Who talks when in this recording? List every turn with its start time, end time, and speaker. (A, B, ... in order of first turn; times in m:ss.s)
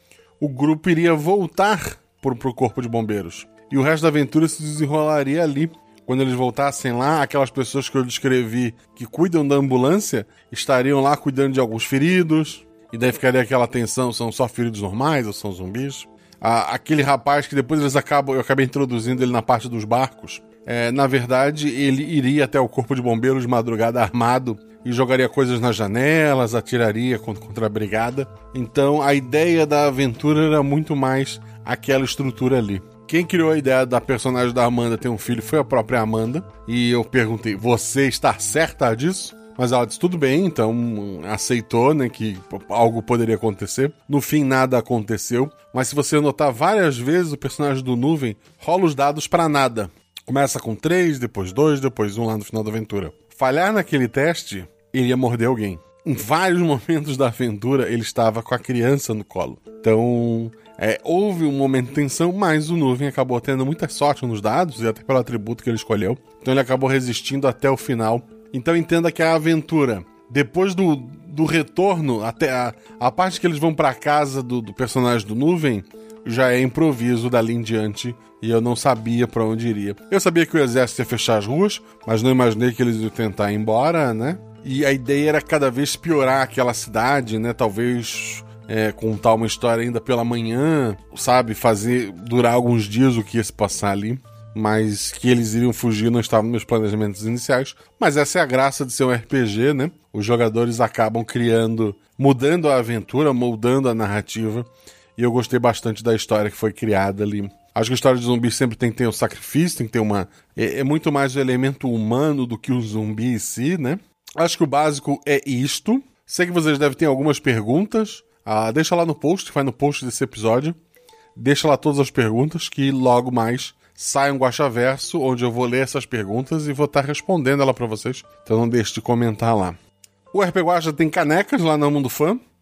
0:00.4-2:00.8 A
2:01.4-2:09.8 A
2:10.3-2:12.4 A